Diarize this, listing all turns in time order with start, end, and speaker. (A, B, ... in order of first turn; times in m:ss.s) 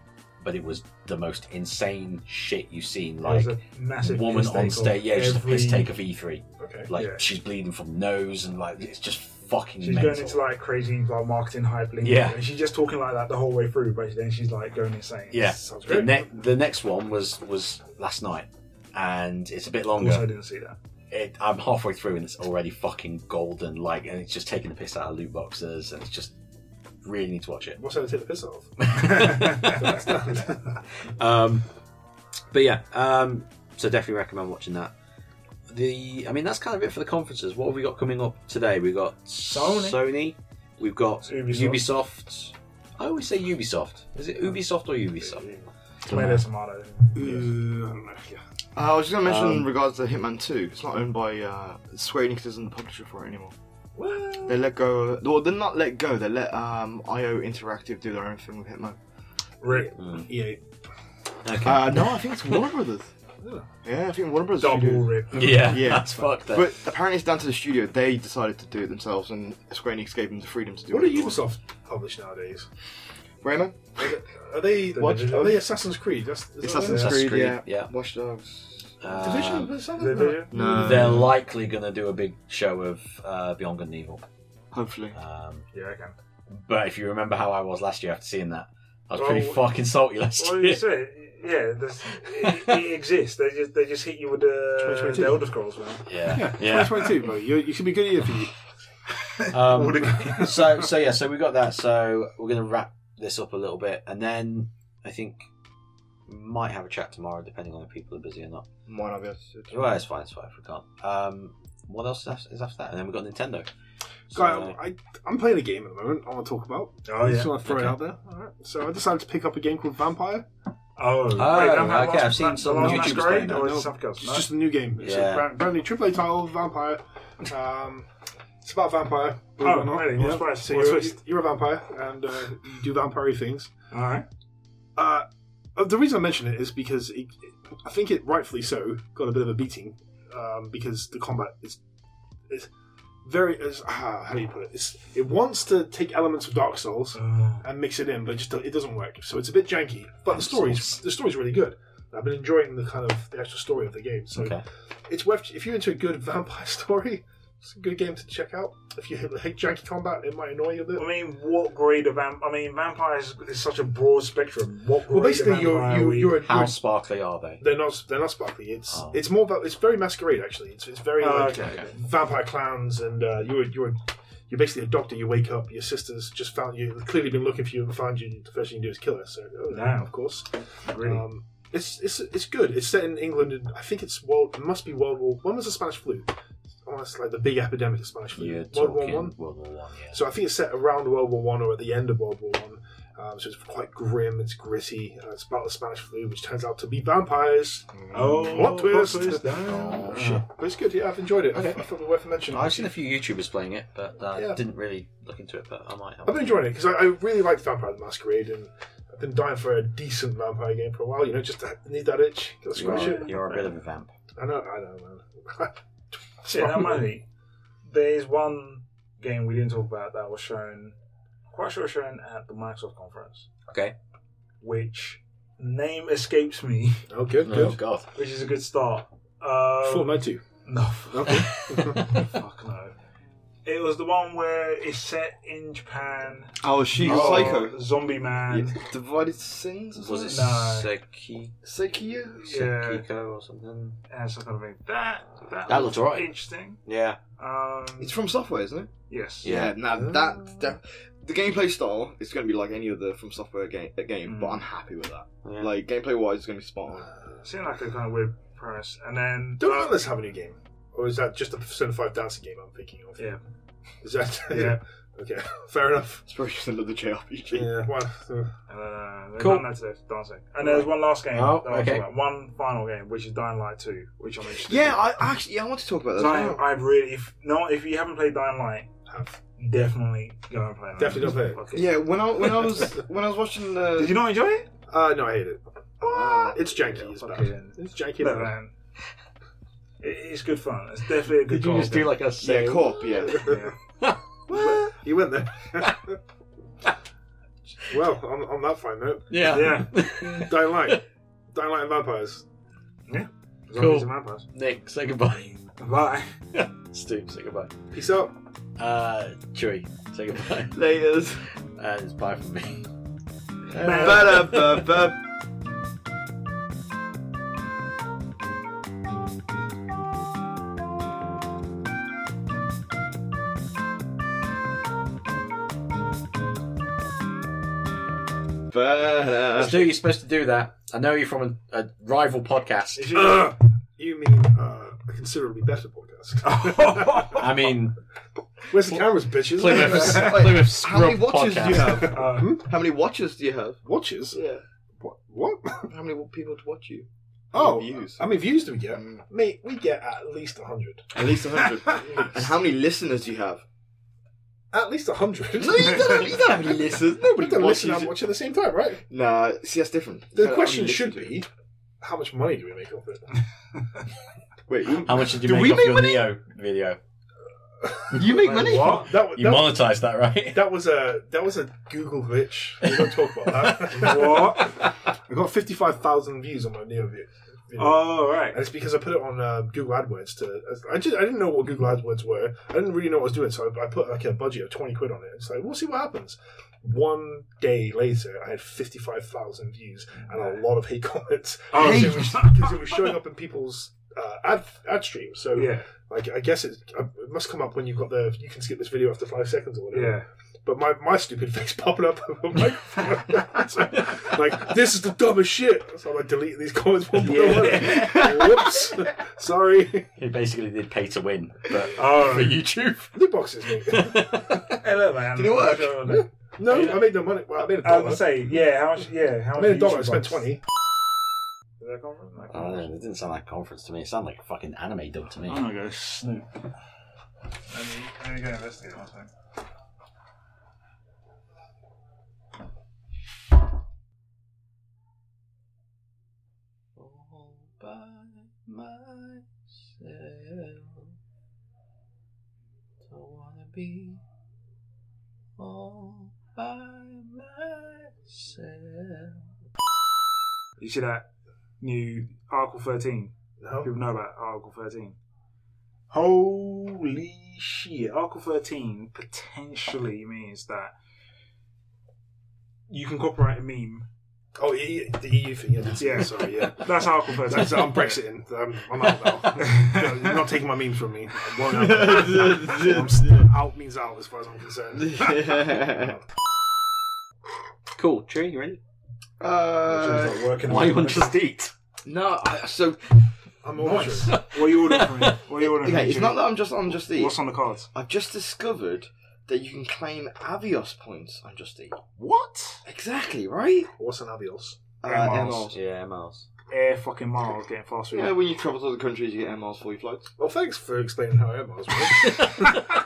0:00.4-0:10.4 A
0:03.2-0:05.9 B
0:06.6-0:06.9 C
0:07.0-0:07.2 B
0:09.8-0:15.5 B
0:12.0-0:12.4 A
0:15.3-0:20.3 A
0:15.4-0:16.3 C
0:20.0-0:20.8 B
0:21.1-0:26.3 A
0:27.0-0:27.8 A
0:27.8-0:30.6 C
0:28.8-0:30.0 A
0:29.0-0:30.0 B
0:31.2-0:31.6 A
0:32.5-0:34.9 A
0:35.7-0:45.5 A
0:39.5-0:40.0 B
0:41.2-0:41.8 B
0:45.3-0:47.5 B
0:47.2-0:47.6 D
0:47.2-0:48.4 C
0:48.8-0:53.6 D
0:49.2-0:49.7 A
0:54.0-0:54.6 C
0:54.4-0:59.0 D
0:59.6-1:00.0 B
0:59.7-1:00.6 C
1:00.0-1:00.3 A
1:01.4-1:02.7 A
1:01.6-1:03.1 D
1:03.4-1:03.7 C
1:03.8-1:11.4 D
1:04.6-1:05.8 B
1:05.3-1:06.7 A
1:10.9-1:12.7 C
1:13.4-1:14.2 D
1:14.0-1:17.2 C
1:14.9-1:15.7 B
1:16.6-1:19.4 D
1:16.8-1:17.9 A
1:19.0-1:19.7 A
1:19.2-1:20.9 C
1:20.0-1:20.6 B
1:20.5-1:21.4 D
1:20.8-1:24.2 A
1:24.7-1:25.2 D
1:25.1-1:25.6 A
1:25.7-1:26.1 B
1:26.5-1:30.8 A
1:29.1-1:29.6 B
1:30.4-1:36.1 B
1:34.8-1:35.5 C
1:36.1-1:37.2 A
1:36.3-1:38.5 C
1:39.4-1:40.6 B
1:39.5-1:45.4 A
1:46.3-1:48.6 A
1:48.9-1:50.0 D
1:49.7-1:53.7 A
1:54.3-1:54.8 A
1:54.3-2:00.5 C
1:57.1-1:57.6 B
1:57.6-1:58.0 A
2:01.0-2:04.5 B
2:01.3-2:03.6 A
2:02.7-2:08.1 C
2:05.0-2:05.5 A
2:08.6-2:13.7 C
2:09.6-2:11.2 B
2:13.9-2:14.3 B
2:15.0-2:21.8 C
2:23.2-2:41.2 C
2:27.2-2:27.6 B
2:30.3-2:31.0 A
2:34.3-2:34.6 A
2:41.0-2:46.4 B
2:45.1-2:46.8 C
2:46.4-2:47.6 A
2:47.6-3:06.3 C
2:48.9-2:49.2 A
2:51.2-2:52.0 B
2:59.7-3:00.1 B
3:00.9-3:01.2 B
3:06.8-3:09.4 C
3:08.4-3:10.2 A
3:10.1-3:22.9 C
3:18.1-3:20.3 B
3:18.4-3:20.4 A
3:21.5-3:21.8 A
3:22.5-3:26.7 A
3:24.3-3:24.6 C
3:26.2-3:33.6 C
3:32.8-3:34.1 A
3:32.8-3:33.3 B
3:34.4-3:35.8 C
3:36.4-3:37.1 C
3:36.4-3:37.3 B
3:37.8-3:41.0 B
3:41.5-3:43.5 B
3:43.7-3:44.0 A
3:44.6-3:47.0 B
3:47.1-3:47.8 C
3:47.4-3:48.1 A
3:48.2-3:52.9 B
3:49.8-3:50.4 C
3:51.1-3:52.1 C
3:51.9-3:52.2 A
3:53.7-3:58.8 B
3:56.6-3:57.8 D
3:57.0-3:57.5 A
3:58.5-4:00.4 D
4:00.0-4:01.5 A
4:00.3-4:00.9 B
4:01.6-4:02.5 D
4:02.4-4:03.0 B
4:02.5-4:04.0 A
4:04.1-4:06.8 B
4:05.7-4:06.3 A
4:06.8-4:07.2 A
4:07.4-4:08.2 B
4:08.0-4:08.9 D
4:09.1-4:09.5 B
4:09.4-4:09.8 A
4:09.4-4:17.1 D
4:14.3-4:14.6 B
4:15.4-4:15.7 A
4:17.4-4:20.0 B
4:19.6-4:23.3 C
4:24.0-4:26.2 C
4:24.5-4:24.8 B
4:26.3-4:27.7 D
4:27.5-4:28.5 C
4:28.7-4:35.0 B
4:29.4-4:29.7 A
4:31.3-4:32.1 A
4:34.6-4:36.6 D
4:36.2-4:38.9 B
4:39.1-4:39.4 C
4:39.6-4:42.0 B
4:41.0-4:41.7 C
4:41.7-4:44.2 D
4:44.0-4:44.7 B
4:44.9-4:48.6 C
4:46.1-4:46.5 D
4:46.6-4:48.7 B
4:50.0-4:52.2 B
4:51.5-4:53.3 A
4:52.4-4:53.6 D
4:53.3-4:53.7 C
4:53.4-4:53.8 B
4:54.5-4:56.2 C
4:57.9-5:02.4 C
4:59.3-5:01.0 A
4:59.5-5:00.0 B
5:03.1-5:04.5 B
5:03.7-5:05.5 A
5:05.8-5:06.3 B
5:06.5-5:07.7 A
5:07.9-5:08.4 C
5:08.8-5:10.8 A
5:10.7-5:11.4 D
5:11.8-5:12.9 A
5:13.7-5:15.0 A
5:13.8-5:14.4 B
5:13.8-5:15.2 D
5:28.7-5:30.0 D
5:29.6-5:33.2 A
5:33.0-5:33.5 B
5:33.1-5:37.5 C
5:36.4-5:37.5 B
5:37.4-5:38.0 A
5:38.7-5:40.5 C
5:39.4-5:42.2 A
5:39.7-5:43.8 D
5:41.8-5:42.7 C
5:42.1-5:42.5 B
5:43.8-5:44.4 C
5:44.3-5:44.6 D
5:45.0-5:45.9 C
5:45.9-5:48.4 D
5:47.5-5:52.5 C
5:48.9-5:49.2 D
5:51.1-5:53.6 D
5:54.7-5:59.0 C
5:55.6-5:58.1 D
5:56.4-5:57.0 A
5:59.1-6:01.4 D
6:00.4-6:01.5 C
6:02.0-6:03.3 C
6:04.7-6:06.3 D
6:05.0-6:07.0 A
6:07.8-6:50.1 C
6:08.1-6:09.1 D
6:08.2-6:10.7 A
6:08.5-6:09.0 B
6:12.8-6:14.9 A
6:13.9-6:14.8 B
6:17.8-6:18.6 B
6:30.1-6:30.7 B
6:31.7-6:32.8 B
6:31.8-6:32.4 D
6:35.6-6:35.9 B
6:39.9-6:40.2 B
6:47.2-6:48.4 B
6:47.4-6:48.8 D
6:50.2-6:53.2 A
6:52.0-6:52.6 B
6:53.1-6:54.3 C
6:53.9-6:54.8 A
6:54.8-6:57.1 B
6:55.3-6:56.3 D
6:56.6-6:58.4 C
6:57.8-7:00.4 B
6:59.5-7:00.6 C
7:01.8-7:02.9 B
7:02.5-7:05.7 A
7:05.5-7:06.5 B
7:07.7-7:09.3 B
7:17.0-7:21.1 A
7:23.1-7:24.2 A
7:25.6-7:29.5 A
7:30.8-7:31.3 B
7:31.8-7:35.2 B
7:33.6-7:33.9 C
7:36.1-7:40.9 B
7:42.9-7:44.1 B
7:44.6-7:56.2 C
7:46.0-7:48.2 B
7:49.6-7:50.4 B
7:51.6-7:53.5 D
7:52.7-7:53.3 B
7:55.0-7:56.2 D
7:58.0-7:58.8 A
7:59.4-8:00.6 D
7:59.9-8:01.4 B
8:00.6-8:01.7 A
8:02.0-8:03.2 D
8:03.6-8:04.4 C
8:03.8-8:06.4 B
8:04.3-8:05.4 A
8:05.6-8:07.4 D
8:07.1-8:07.9 B
8:07.9-8:12.1 D
8:12.2-8:12.8 B
8:12.9-8:13.9 D
8:14.0-8:14.8 C
8:15.0-8:15.8 D
8:15.0-8:15.7 B
8:15.7-8:16.5 A
8:16.7-8:18.4 B
8:18.1-8:20.3 D
8:20.4-8:22.8 C
8:22.4-8:22.7 A